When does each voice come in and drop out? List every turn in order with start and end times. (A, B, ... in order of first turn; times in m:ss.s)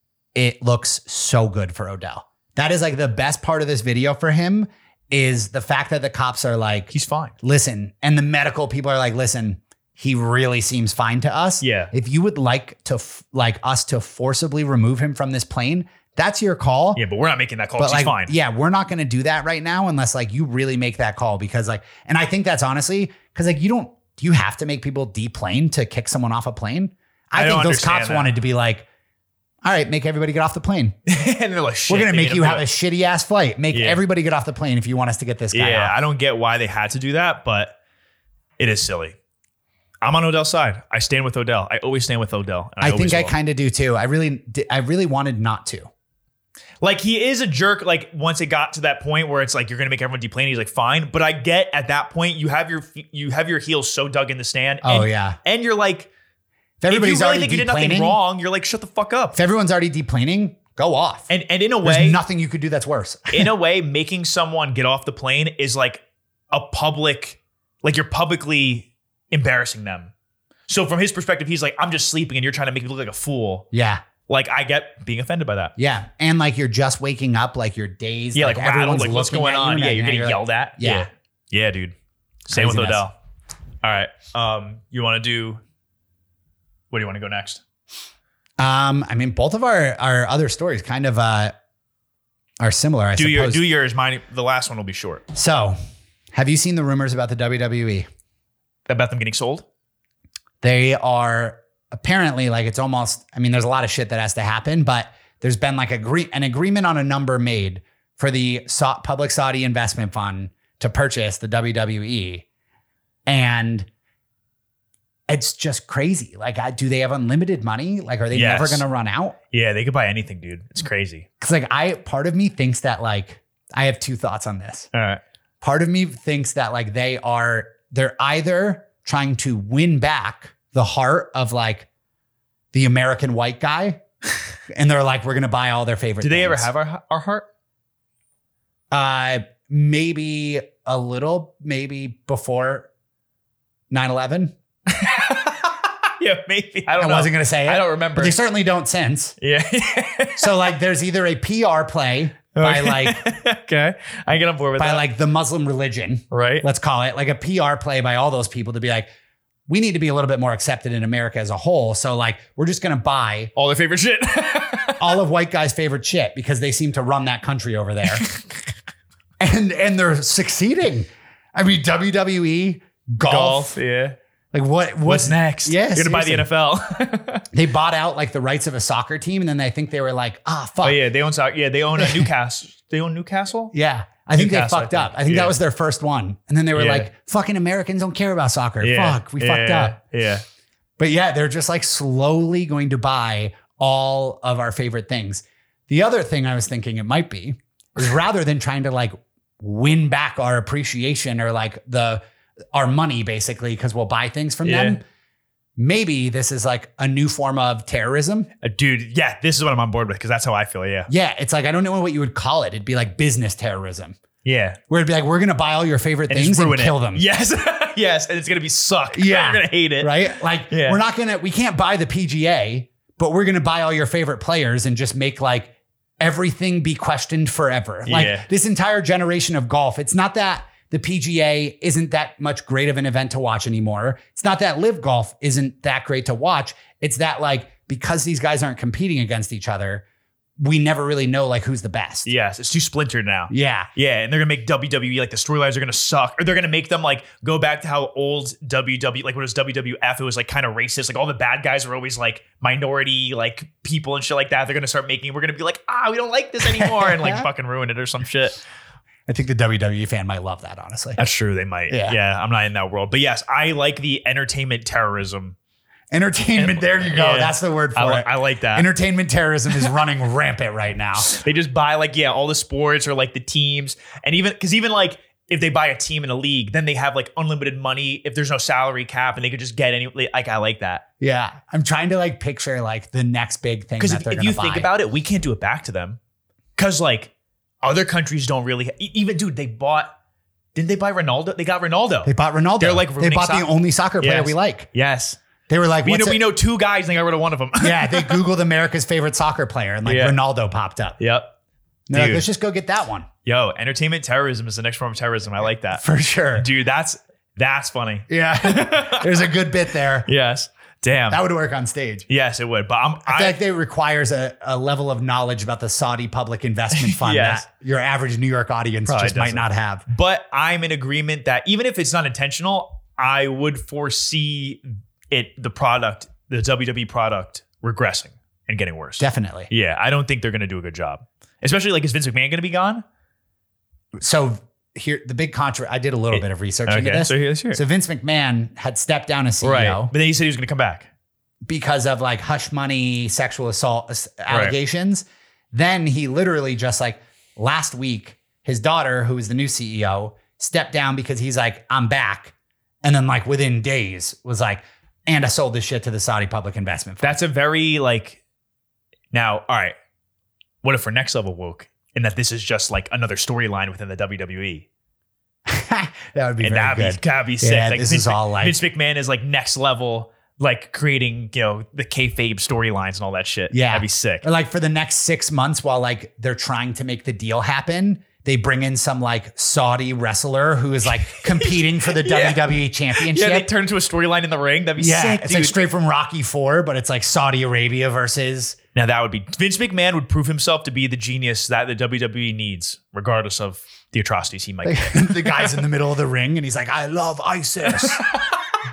0:00.3-0:17.0 A
0:06.9-0:07.3 B
0:11.6-0:11.9 B
0:16.9-0:18.3 B
0:17.8-0:28.8 A
0:27.3-0:28.3 B
0:29.6-0:30.9 A
0:31.1-0:32.7 B
0:31.9-0:36.0 A
0:33.7-0:34.0 B
0:35.5-0:37.8 B
0:38.6-0:39.2 B
0:40.0-0:43.3 B
0:42.8-0:45.9 A
0:46.8-0:56.1 B
0:54.8-0:55.4 A
0:56.8-0:58.2 A
0:56.9-0:59.4 B
0:59.3-1:01.3 A
1:01.3-1:02.2 B
1:01.8-1:03.5 A
1:03.3-1:10.1 B
1:10.7-1:13.6 B
1:13.7-1:14.0 A
1:14.3-1:15.7 B
1:15.8-1:21.1 A
1:18.3-1:21.9 B
1:22.5-1:23.1 B
1:22.5-1:23.0 A
1:23.8-1:25.6 B
1:26.9-1:27.6 B
1:28.6-1:31.5 A
1:32.6-1:33.6 A
1:33.2-1:35.2 B
1:35.3-1:35.8 A
1:36.3-1:38.1 A
1:38.9-1:39.6 B
1:40.6-1:52.4 A
1:53.2-1:53.9 A
1:55.3-1:59.4 A
1:58.3-1:58.8 B
1:59.5-2:01.3 B
2:01.4-2:04.9 A
2:04.9-2:05.2 B
2:05.6-2:11.9 A
2:12.7-2:14.0 A
2:14.7-2:16.7 A
2:16.2-2:17.4 B
2:18.9-2:22.9 A
2:23.9-2:24.5 A
2:24.9-2:28.4 B
2:27.0-2:29.4 A
2:29.4-2:30.6 B
2:30.4-2:33.2 A
2:32.5-2:35.0 B
2:34.8-2:39.1 A
2:36.3-2:36.6 B
2:39.7-2:43.5 A
2:43.6-2:45.1 B
2:45.0-2:48.3 A
2:49.4-2:53.8 A
2:53.2-2:54.2 B
2:54.5-2:56.5 A
2:55.0-2:57.5 B
2:57.5-3:01.0 A
3:00.8-3:03.7 B
3:02.0-3:02.3 A
3:03.7-3:10.0 A
3:04.3-3:05.5 B
3:06.7-3:07.1 B
3:08.8-3:10.4 B
3:11.0-3:22.2 A
3:22.7-3:25.0 A
3:24.6-3:25.0 B
3:25.8-3:28.5 A
3:28.6-3:31.1 B
3:31.1-3:34.2 A
3:34.4-3:34.8 B
3:34.9-3:37.2 A
3:36.3-3:41.0 B
3:39.1-4:00.0 A
3:48.0-3:48.5 B
4:00.6-4:02.3 A
4:02.2-4:18.6 B
4:03.5-4:03.9 A
4:16.6-4:17.4 A
4:19.3-4:21.3 A
4:21.2-4:25.6 B
4:21.9-4:22.2 A
4:26.1-4:31.3 A
4:26.6-4:28.9 B
4:31.2-4:41.0 B
4:41.2-4:44.9 A
4:44.0-4:46.2 B
4:46.8-4:47.3 B
4:47.8-4:50.1 B
4:50.7-4:53.7 B
4:52.2-4:54.9 A
4:54.2-4:55.4 B
4:55.7-4:56.4 A
4:56.0-4:58.4 B
4:57.8-5:01.2 A
5:00.0-5:00.4 B
5:01.2-5:01.5 B
5:02.1-5:03.3 A
5:02.1-5:02.4 B
5:03.4-5:06.0 B
5:06.0-5:06.7 A
5:06.5-5:09.5 B
5:08.3-5:10.3 A
5:10.2-5:11.4 B
5:11.3-5:12.2 A
5:12.3-5:13.6 B
5:13.2-5:20.0 A
5:17.0-5:17.6 B
5:19.0-5:33.0 B
5:29.2-5:29.7 A
5:34.2-5:40.1 A
5:36.3-5:37.8 B
5:39.6-5:41.1 B
5:41.6-5:57.3 A
5:44.5-5:44.7 B
5:57.2-5:58.4 B
5:59.3-6:00.0 B
6:00.8-6:04.8 B
6:05.7-6:08.8 A
6:06.6-6:14.4 B
6:13.7-6:23.7 A
6:21.5-6:25.8 B
6:25.0-6:28.8 A
6:28.9-6:35.8 B
6:34.8-6:38.4 A
6:37.8-6:38.6 B